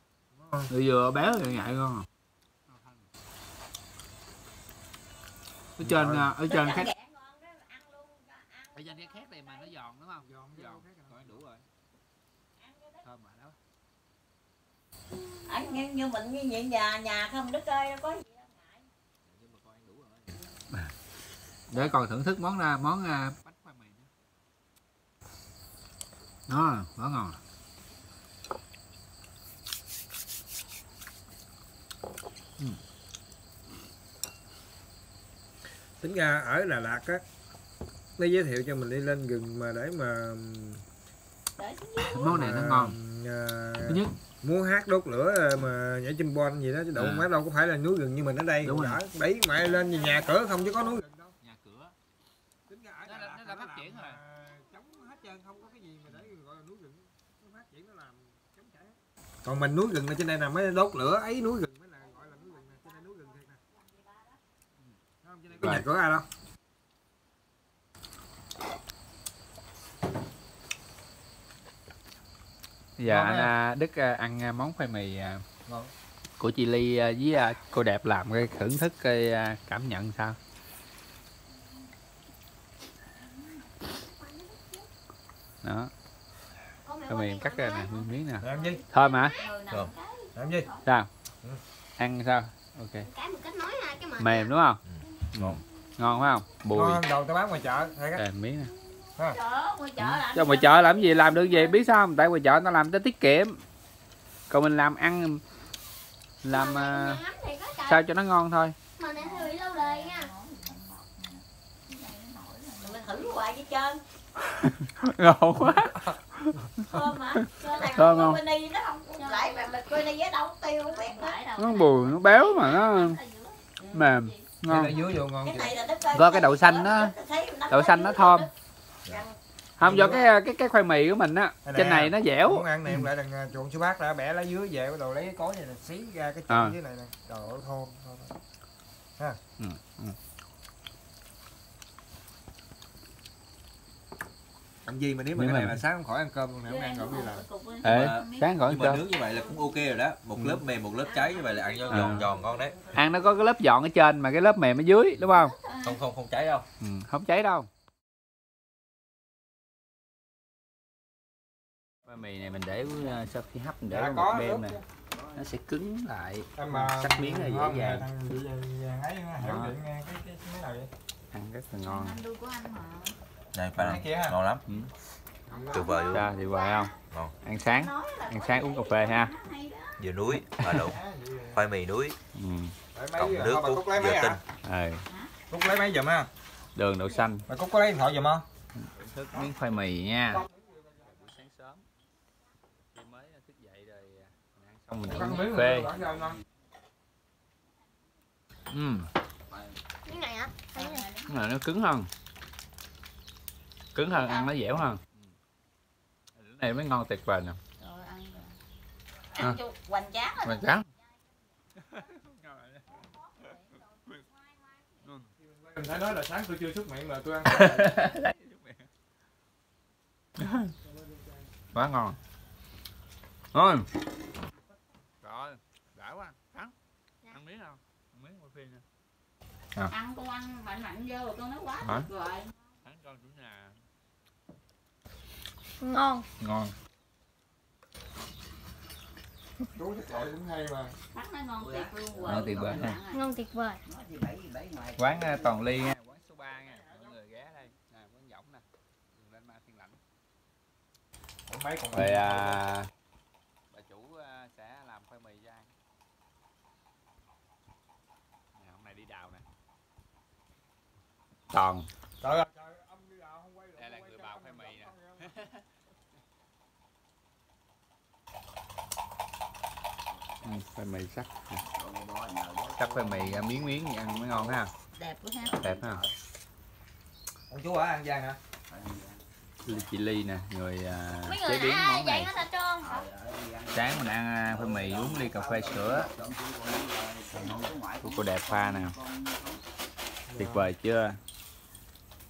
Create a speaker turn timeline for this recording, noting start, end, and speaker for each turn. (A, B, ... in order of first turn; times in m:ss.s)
0:00.3-0:00.7 A
0:00.7-0:02.1 B
0:02.7-0:03.0 B
0:05.8-0:06.9 B
0:05.8-0:06.4 A
0:06.5-0:06.9 C
0:06.5-0:09.7 D
0:08.7-0:11.6 B
0:10.2-0:11.4 A
0:12.6-0:13.0 D
0:13.0-0:13.6 B
0:15.4-0:18.2 C
0:18.2-0:18.9 D
0:19.5-0:19.9 B
0:21.7-0:24.1 B
0:26.5-0:27.4 B
0:36.0-0:37.2 A
0:38.2-0:40.8 A
0:41.6-0:42.4 D
0:42.0-0:43.0 B
0:42.2-0:51.3 A
0:43.8-0:44.1 B
0:46.9-0:47.3 B
0:48.6-0:49.0 B
0:49.7-0:50.6 D
0:51.4-0:51.9 B
0:52.7-1:03.6 A
0:53.0-0:54.2 B
0:56.1-0:56.3 B
1:05.2-1:06.2 A
1:13.0-1:15.4 B
1:13.0-1:13.5 A
1:15.7-1:15.9 A
1:16.4-1:20.4 B
1:24.0-1:24.9 E
1:25.6-1:25.9 B
1:26.8-1:28.1 E
1:27.1-1:29.4 B
1:28.4-1:28.8 A
1:28.6-1:29.5 E
1:29.3-1:30.8 D
1:30.3-1:30.7 A
1:32.0-1:33.1 B
1:33.0-1:34.5 E
1:34.2-1:34.8 B
1:34.8-1:35.6 F
1:35.3-1:37.0 B
1:36.7-1:38.2 A
1:38.2-1:38.7 B
1:39.2-1:41.7 D
1:40.0-1:43.6 B
1:44.5-1:45.4 B
1:46.4-1:47.2 B
1:46.5-1:48.0 E
1:47.8-1:48.8 B
1:49.0-1:50.3 E
1:49.2-1:53.4 D
1:52.8-1:54.0 C
1:54.5-1:58.4 B
1:55.8-1:56.1 A
1:56.9-2:01.4 C
1:59.2-1:59.8 D
2:00.8-2:04.4 D
2:01.6-2:03.2 B
2:03.9-2:05.0 B
2:04.6-2:05.7 A
2:05.4-2:08.5 C
2:06.1-2:07.1 B
2:07.7-2:08.5 B
2:09.0-2:09.4 C
2:09.8-2:13.1 B
2:09.8-2:10.2 A
2:11.6-2:18.4 A
2:16.5-2:16.8 B
2:19.6-2:20.2 B
2:24.8-2:27.4 A
2:25.4-2:25.8 B
2:26.6-2:28.6 D
2:27.8-2:32.8 F
2:27.8-2:29.0 B
2:31.9-2:32.3 B
2:32.9-2:35.5 B
2:35.2-2:36.0 D
2:35.8-2:36.6 F
2:36.8-2:37.7 B
2:42.1-2:44.8 B
2:43.9-2:44.8 A
2:45.3-2:48.1 B
2:46.6-2:50.9 A
2:49.4-2:49.7 B
2:51.3-2:52.2 B
2:51.8-2:53.1 D
2:53.5-2:54.6 F
2:53.8-2:54.9 B
2:53.8-2:54.2 A
2:55.5-2:55.9 A
2:55.5-2:56.9 D
2:55.7-2:56.3 F
2:56.1-2:56.9 B
2:57.4-2:59.3 B
2:57.6-3:00.0 D
3:00.0-3:01.0 F
3:00.7-3:01.6 A
3:01.5-3:02.2 F
3:02.3-3:02.7 B
3:02.9-3:04.4 A
3:03.1-3:04.4 F
3:04.6-3:05.0 B
3:05.5-3:06.3 A
3:06.8-3:07.4 B
3:07.5-3:08.4 A
3:08.8-3:10.4 B
3:10.3-3:11.3 A
3:11.0-3:11.8 B
3:12.9-3:15.9 B
3:15.0-3:16.4 A
3:18.7-3:19.1 B
3:20.0-3:21.1 E
3:20.7-3:21.4 D
3:21.3-3:22.1 B
3:23.9-3:25.3 B
3:24.1-3:24.5 D
3:26.3-3:27.6 B
3:27.8-3:28.6 D
3:29.3-3:30.8 D
3:30.4-3:30.9 B
3:31.7-3:33.5 B
3:32.9-3:35.0 D
3:35.0-3:35.3 B
3:35.4-3:38.0 A
3:37.4-3:38.9 B
3:40.4-3:40.7 B
3:40.8-3:41.5 A
3:41.7-3:42.2 B
3:43.5-3:43.9 B
3:45.2-3:46.7 B
3:47.3-3:48.8 B
3:49.9-3:52.5 D
3:51.8-3:52.1 B
3:52.8-3:53.8 B
3:55.8-3:56.2 E
3:56.4-3:56.7 B
3:59.7-4:00.9 A
4:01.1-4:03.2 D
4:02.2-4:03.0 B
4:03.1-4:03.8 E
4:04.9-4:10.0 B
4:06.4-4:07.2 A
4:11.5-4:12.6 A
4:11.9-4:12.9 B
4:13.7-4:15.7 B
4:18.6-4:19.4 B
4:21.5-4:21.9 B
4:22.2-4:25.4 A
4:23.8-4:25.6 B
4:30.4-4:31.6 B
4:32.6-4:34.7 B
4:35.0-4:35.7 D
4:35.5-4:36.0 B
4:37.5-4:38.4 A
4:39.6-4:42.3 B
4:41.2-4:43.1 D
4:41.4-4:43.0 E
4:43.6-4:46.2 B
4:47.1-4:49.0 B
4:50.3-4:50.7 A
4:50.4-4:51.2 B